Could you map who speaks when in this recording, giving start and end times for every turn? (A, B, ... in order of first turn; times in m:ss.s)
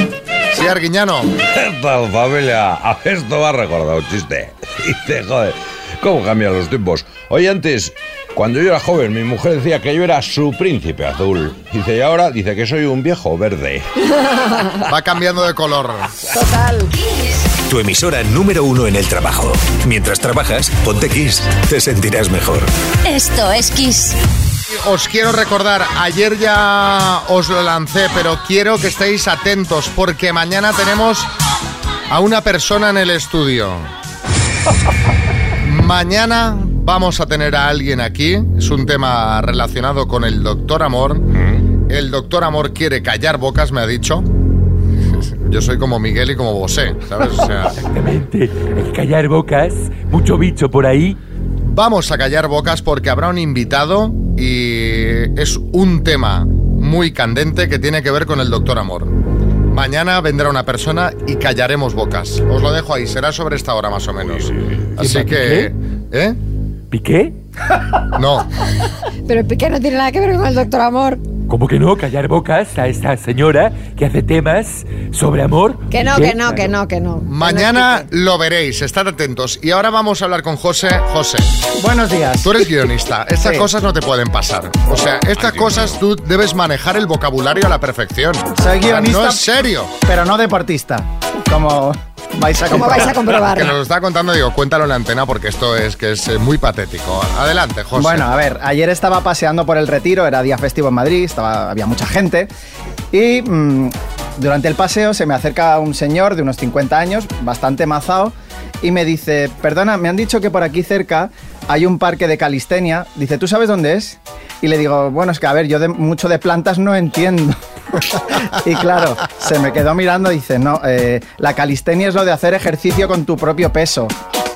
0:00.5-0:01.3 A
0:01.5-0:13.9 B
0:14.9-0:16.1 A
0:16.3-0:16.9 C
0:17.7-0:22.7 D
0:24.8-0:31.3 A
0:32.1-0:33.9 A
0:35.6-0:41.3 A
0:41.9-0:44.3 A
0:45.1-0:47.8 A
0:47.7-0:51.2 E
0:51.7-0:59.1 A
0:59.7-1:06.4 A
1:05.0-1:05.7 E
1:06.9-1:07.4 E
1:08.2-1:08.5 A
1:09.3-1:11.2 C
1:11.5-1:16.6 E
1:15.9-1:18.1 C
1:17.3-1:21.5 A
1:21.8-1:22.6 F
1:22.4-1:29.9 A
1:23.4-1:23.7 F
1:25.4-1:25.7 B
1:28.6-1:29.4 F
1:30.0-1:33.2 F
1:32.7-1:33.7 C
1:33.0-1:38.3 A
1:38.0-1:42.5 F
1:43.1-1:57.6 F
1:58.5-2:04.1 F